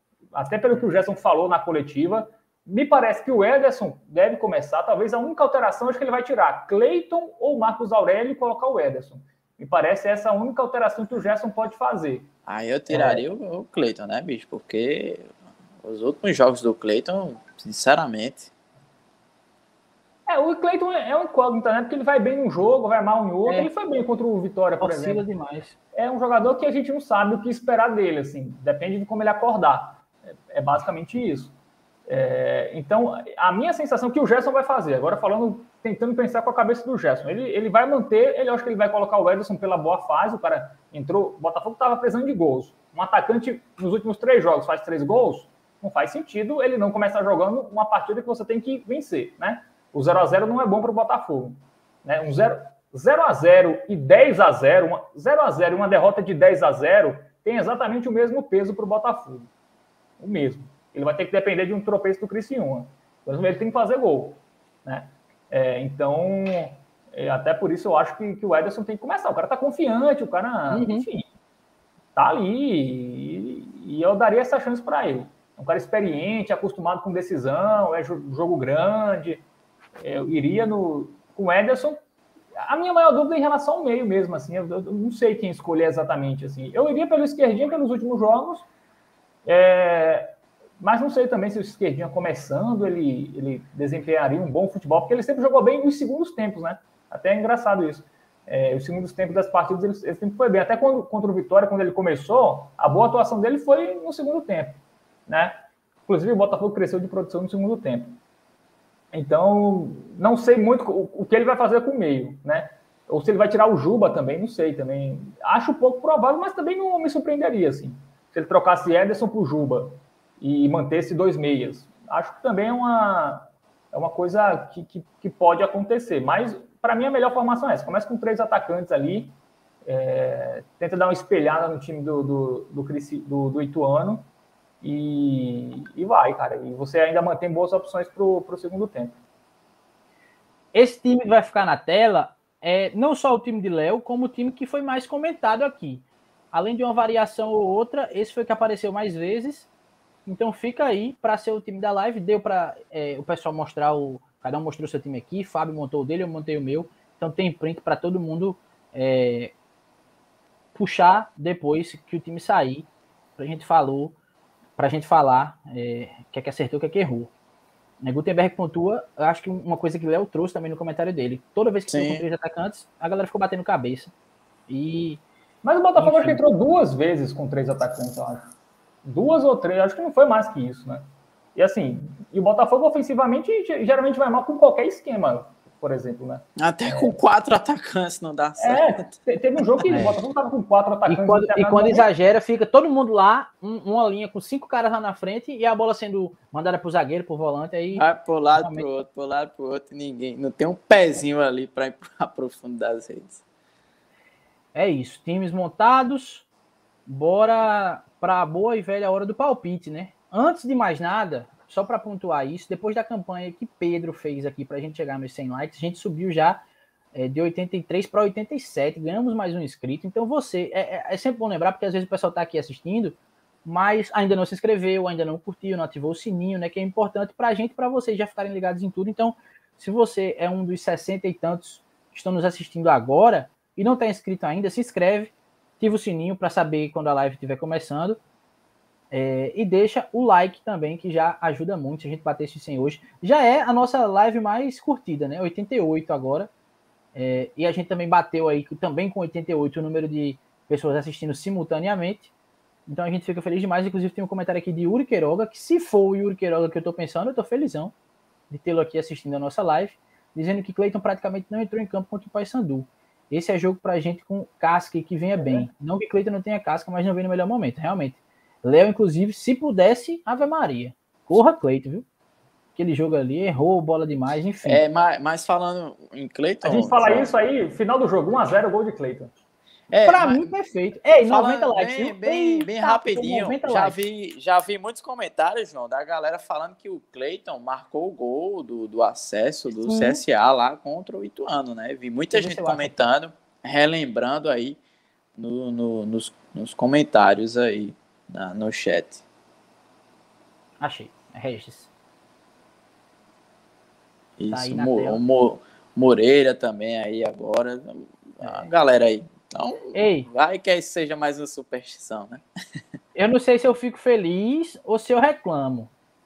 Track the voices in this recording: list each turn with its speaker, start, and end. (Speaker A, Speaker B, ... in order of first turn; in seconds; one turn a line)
Speaker A: 0.3-12.3
Speaker B: 12.5-15.3
Speaker C: 12.9-13.2
Speaker B: 15.8-18.5
Speaker A: 20.3-25.2
Speaker C: 23.5-23.7
Speaker C: 24.8-25.8
Speaker A: 25.9-31.5
Speaker A: 32.1-59.5
Speaker A: 60.2-71.2
Speaker C: 70.7-71.1
Speaker A: 72.2-79.5
Speaker A: 80.0-82.0
Speaker A: 82.6-88.7
Speaker A: 89.5-105.5
Speaker A: 106.1-108.2
Speaker A: 109.1-134.3
Speaker A: 134.8-139.2
Speaker C: 140.7-149.7
Speaker C: 150.3-159.5
Speaker C: 160.7-164.2
Speaker C: 164.8-167.3
Speaker C: 168.0-174.1
Speaker B: 171.9-172.2
Speaker C: 174.7-175.2
Speaker A: 175.6-187.1
Speaker C: 176.0-176.4
Speaker B: 186.6-189.0
Speaker A: 188.6-192.1
Speaker C: 189.8-190.2
Speaker C: 191.1-198.1
Speaker B: 197.9-203.4
Speaker C: 198.6-198.9
Speaker C: 204.7-206.5
Speaker C: 207.1-216.6
Speaker C: 217.1-238.2
Speaker C: 239.1-246.5
Speaker C: 247.2-252.3
Speaker C: 252.9-257.9
Speaker C: 258.5-272.1
Speaker A: 265.4-265.7
Speaker C: 272.8-274.8
Speaker B: 274.6-277.3
Speaker A: 276.6-279.3
Speaker B: 279.9-280.5
Speaker C: 280.1-284.0
Speaker B: 281.2-294.8
Speaker C: 289.8-290.2
Speaker C: 292.3-293.0
Speaker B: 295.4-299.2
Speaker C: 300.8-301.9
Speaker B: 304.4-312.4
Speaker C: 304.5-305.2
Speaker C: 308.4-308.7
Speaker C: 309.9-310.3
Speaker C: 313.1-315.9